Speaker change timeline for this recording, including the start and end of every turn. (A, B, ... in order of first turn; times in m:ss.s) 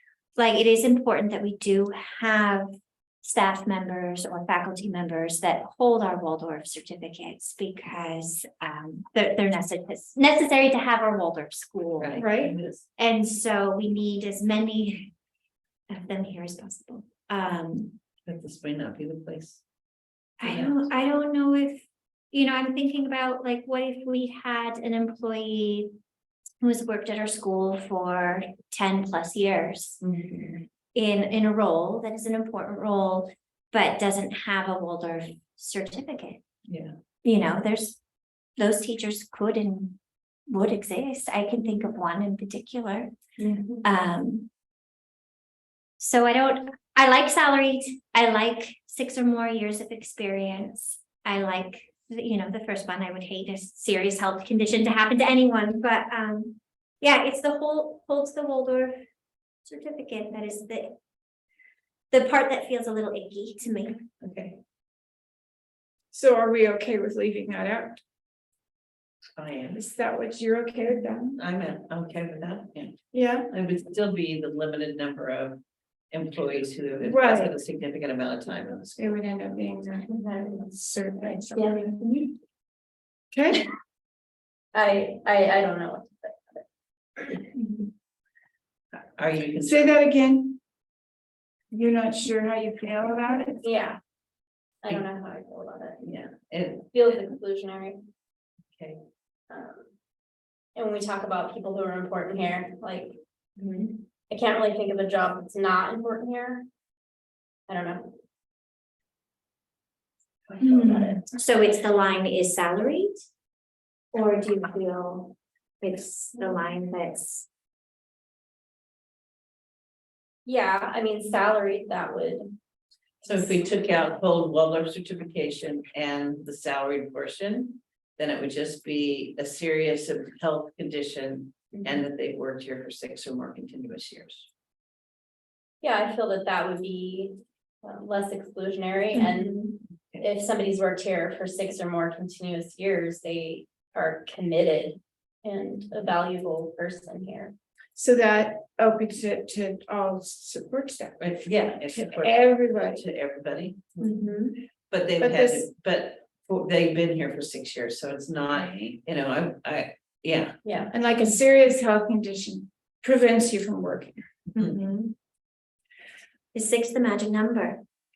0:00.4-0:12.2 A
0:12.0-0:12.8 B
0:12.2-0:12.6 C
0:13.0-0:15.1 A
0:15.9-0:18.0 A
0:18.2-0:19.6 B
0:20.4-0:25.9 A
0:20.4-0:20.9 B
0:26.6-0:30.0 A
0:30.0-0:30.6 B
0:31.0-0:36.4 A
0:36.7-0:36.9 B
0:37.2-0:38.0 A
0:38.6-0:43.1 A
0:43.8-0:44.5 A
0:46.0-0:59.0 A
0:59.7-1:01.0 A
1:02.1-1:04.0 A
1:04.2-1:04.6 B
1:06.1-1:08.0 C
1:09.4-1:09.8 B
1:09.7-1:11.4 C
1:11.4-1:13.0 B
1:13.1-1:13.5 C
1:13.5-1:19.1 B
1:17.0-1:17.6 C
1:19.0-1:22.1 C
1:20.1-1:20.7 D
1:23.3-1:23.7 C
1:24.7-1:26.6 D
1:27.6-1:27.9 C
1:29.2-1:30.0 B
1:29.6-1:30.6 C
1:31.7-1:33.7 C
1:33.6-1:34.0 D
1:34.8-1:36.0 D
1:36.0-1:36.9 B
1:36.9-1:38.0 D
1:39.5-1:39.9 D
1:40.8-1:43.2 D
1:43.6-1:44.0 A
1:44.3-1:46.7 D
1:47.7-1:48.2 D
1:50.5-1:51.3 D
1:50.6-1:51.2 C
1:51.3-1:53.1 A
1:54.1-1:57.5 A
2:00.5-2:02.6 D
2:03.2-2:14.5 B
2:11.7-2:12.0 D
2:15.8-2:27.5 D
2:28.0-2:33.0 C
2:31.2-2:34.1 B
2:34.0-2:34.5 A
2:34.9-2:40.6 B
2:35.2-2:35.7 C
2:38.5-2:38.9 C
2:40.6-2:40.9 D
2:40.9-2:44.6 C
2:44.6-2:45.1 B
2:46.5-2:47.8 A